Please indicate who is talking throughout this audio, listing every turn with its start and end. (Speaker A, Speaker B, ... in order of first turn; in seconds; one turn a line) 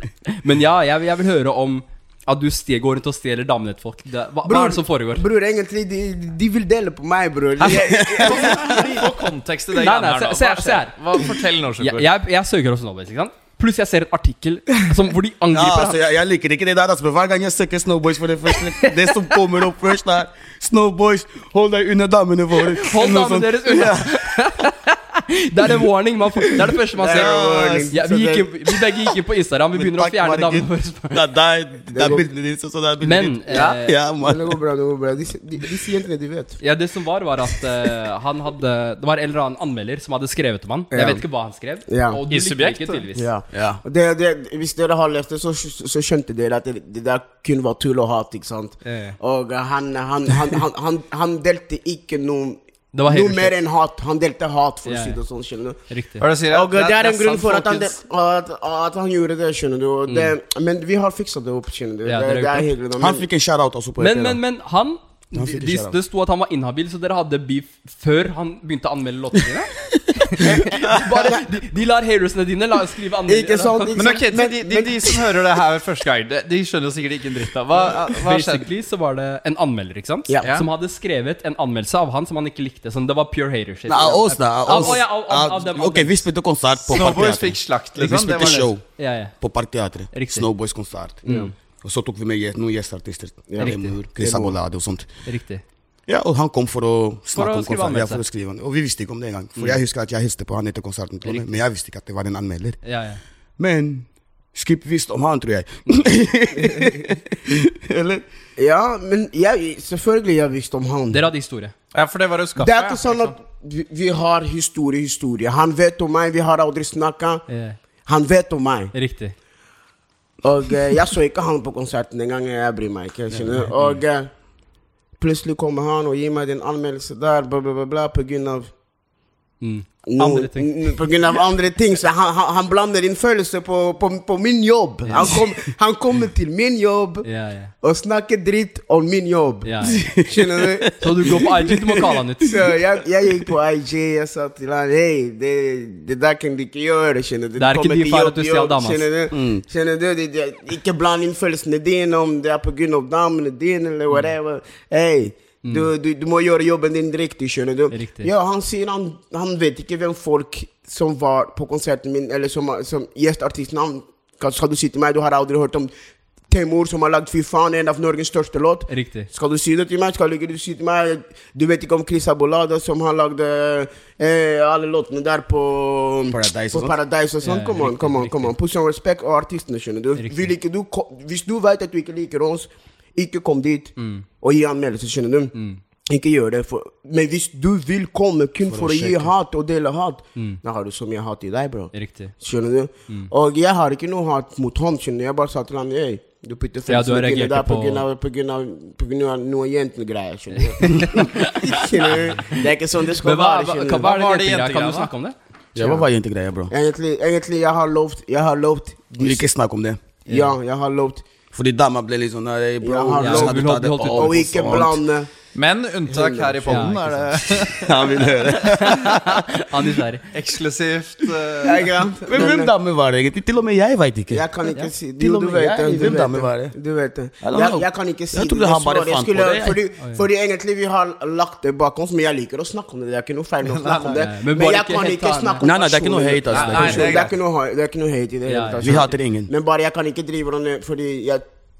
Speaker A: 0.3-5.2
Speaker B: 4.5-9.1
Speaker C: 7.6-12.1
Speaker D: 7.9-9.0
Speaker A: 9.7-10.9
Speaker A: 11.8-16.0
Speaker D: 15.5-24.3
Speaker A: 18.8-19.3
Speaker A: 22.8-31.2
Speaker B: 26.9-28.0
Speaker D: 27.0-29.1
Speaker D: 29.7-34.6
Speaker B: 31.9-32.2
Speaker A: 33.0-34.0
Speaker B: 34.2-36.6
Speaker A: 36.6-43.2
Speaker B: 40.9-41.2
Speaker B: 41.9-42.2
Speaker C: 42.3-43.0
Speaker B: 43.1-55.8
Speaker D: 43.5-43.8
Speaker A: 48.8-49.2
Speaker A: 52.9-53.5
Speaker A: 54.8-55.2
Speaker A: 55.9-56.2
Speaker C: 56.2-58.0
Speaker B: 56.5-63.2
Speaker A: 60.1-60.3
Speaker A: 62.0-62.7
Speaker D: 63.0-64.4
Speaker A: 64.0-74.0
Speaker D: 65.3-66.0
Speaker D: 70.4-71.1
Speaker B: 73.2-75.2
Speaker C: 74.0-78.7
Speaker A: 78.2-86.2
Speaker D: 83.9-91.2
Speaker C: 86.9-88.7
Speaker A: 88.3-89.3
Speaker A: 90.1-90.5
Speaker B: 91.2-91.5
Speaker A: 91.2-91.5
Speaker D: 91.8-95.1
Speaker B: 93.5-94.5
Speaker A: 93.6-93.9
Speaker A: 95.2-95.6
Speaker D: 96.1-102.8
Speaker A: 97.3-98.2
Speaker A: 102.8-103.2
Speaker D: 103.6-108.2
Speaker B: 108.6-111.2
Speaker A: 111.1-111.7
Speaker C: 111.9-113.3
Speaker B: 112.6-117.5
Speaker A: 117.5-117.8
Speaker B: 118.0-118.9
Speaker A: 118.9-119.3
Speaker B: 120.4-124.3
Speaker B: 125.2-128.7
Speaker A: 129.6-131.0
Speaker B: 130.1-137.3
Speaker A: 135.1-135.3
Speaker A: 137.2-137.7
Speaker B: 137.8-140.9
Speaker A: 139.6-140.0
Speaker D: 139.8-142.5
Speaker A: 141.0-142.5
Speaker B: 142.4-165.9
Speaker A: 147.6-149.1
Speaker D: 149.3-149.6
Speaker A: 155.6-155.9
Speaker A: 157.9-158.3
Speaker B: 166.5-185.5
Speaker A: 168.9-169.3
Speaker D: 176.3-176.9
Speaker A: 177.4-178.5
Speaker A: 180.2-180.5
Speaker A: 184.0-184.2
Speaker A: 185.5-185.8
Speaker B: 186.1-204.1
Speaker D: 188.6-189.3
Speaker A: 190.3-190.6
Speaker A: 191.9-192.3
Speaker A: 196.9-198.0
Speaker A: 200.7-202.6
Speaker A: 203.2-205.3
Speaker C: 204.0-205.1
Speaker D: 205.7-206.7
Speaker B: 205.8-206.1
Speaker B: 206.7-209.4
Speaker D: 209.2-210.0
Speaker A: 210.3-210.5
Speaker B: 210.3-211.2
Speaker D: 211.5-215.0
Speaker B: 212.8-215.3
Speaker A: 213.2-214.7
Speaker C: 215.5-218.4
Speaker B: 216.1-217.0
Speaker A: 216.7-217.0
Speaker D: 217.4-219.5
Speaker A: 218.8-220.2
Speaker C: 220.3-221.9
Speaker B: 221.6-222.7
Speaker D: 222.2-224.4
Speaker B: 224.3-241.4
Speaker D: 225.2-226.7
Speaker D: 227.4-229.8
Speaker A: 230.0-230.2
Speaker C: 233.6-234.2
Speaker A: 234.2-235.7
Speaker D: 235.6-237.2
Speaker C: 236.4-237.3
Speaker A: 236.5-237.1
Speaker A: 238.4-239.1
Speaker D: 238.8-239.5